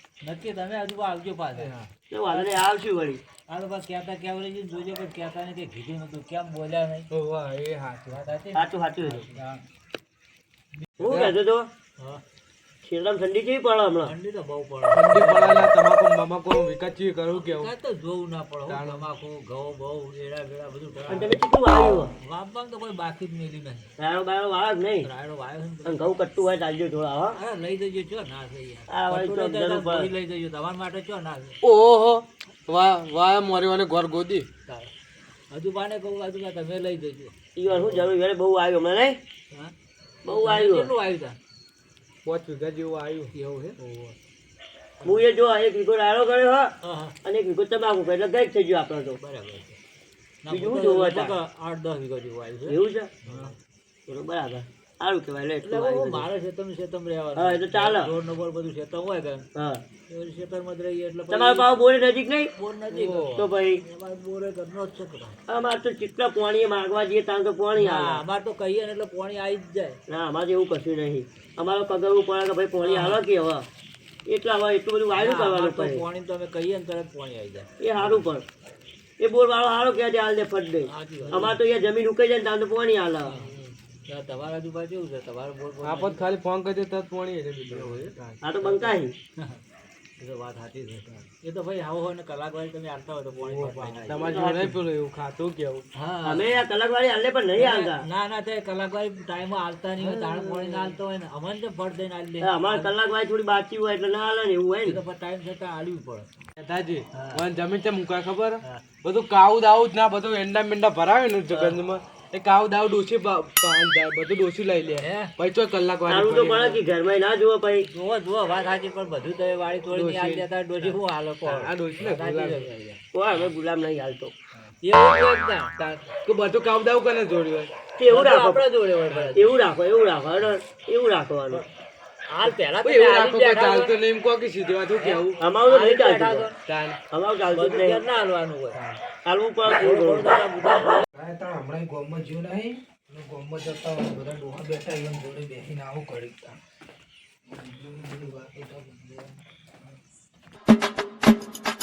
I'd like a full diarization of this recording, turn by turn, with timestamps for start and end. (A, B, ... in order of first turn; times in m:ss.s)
0:00.2-0:01.9 A
0:02.1-0:03.2 B
0:03.5-0:07.1 A
0:07.1-0:08.2 C
0:08.1-0:09.6 A
0:08.5-0:09.3 B
0:11.0-0:11.7 B
0:11.0-0:11.3 C
0:12.8-0:14.1 B
0:14.0-0:15.7 A
0:14.9-0:17.7 C
0:17.3-0:21.4 A
0:18.7-0:19.0 C
0:21.1-0:22.1 B
0:21.9-0:23.9 A
0:24.0-0:25.1 B
0:25.0-0:26.1 A
0:25.8-0:27.4 B
0:27.4-0:31.6 A
0:28.9-0:30.1 B
0:31.6-0:34.5 C
0:35.5-0:38.1 A
0:37.6-0:39.2 B
0:40.2-0:40.9 B
0:40.3-0:41.4 A
0:42.2-0:43.3 C
0:43.3-0:44.1 A
0:45.0-0:46.7 B
0:46.8-0:47.2 A
0:47.2-0:49.2 B
0:49.2-0:49.8 A
0:50.4-0:53.5 A
0:50.5-0:51.4 B
0:52.7-0:53.1 B
0:54.1-0:56.2 B
0:55.6-0:59.5 A
0:57.4-0:58.1 B
0:59.5-0:59.8 B
1:00.1-1:01.7 A
1:01.3-1:02.5 B
1:02.6-1:05.4 A
1:02.9-1:03.3 C
1:03.3-1:03.8 B
1:05.5-1:08.2 B
1:07.8-1:10.0 A
1:10.1-1:13.6 B
1:12.8-1:13.2 A
1:14.3-1:16.0 B
1:15.2-1:18.2 A
1:17.8-1:18.4 B
1:19.2-1:23.3 B
1:20.9-1:21.6 A
1:23.2-1:23.5 A
1:23.3-1:23.7 C
1:24.1-1:26.2 A
1:25.8-1:28.2 C
1:27.7-1:28.9 A
1:28.4-1:29.1 B
1:30.2-1:34.2 A
1:33.4-1:35.9 C
1:34.2-1:34.7 B
1:36.0-1:36.6 A
1:36.2-1:38.0 B
1:37.6-1:42.9 A
1:40.0-1:40.9 C
1:42.4-1:45.0 B
1:44.8-1:46.3 A
1:46.6-1:56.8 C
1:47.1-1:47.4 A
1:55.0-1:55.3 A
1:56.1-1:57.8 B
1:57.8-2:03.0 A
1:59.9-2:02.7 C
2:03.1-2:04.3 B
2:04.6-2:06.0 A
2:05.8-2:07.7 C
2:08.0-2:08.6 B
2:08.1-2:09.6 A
2:09.3-2:11.6 B
2:12.3-2:14.0 A
2:12.4-2:15.4 C
2:15.0-2:16.6 A
2:15.4-2:16.5 B
2:16.6-2:17.0 C
2:17.1-2:18.0 B
2:17.5-2:18.8 A
2:18.7-2:19.0 C
2:19.2-2:20.4 B
2:19.7-2:21.0 A
2:21.1-2:26.6 D
2:27.5-2:29.4 D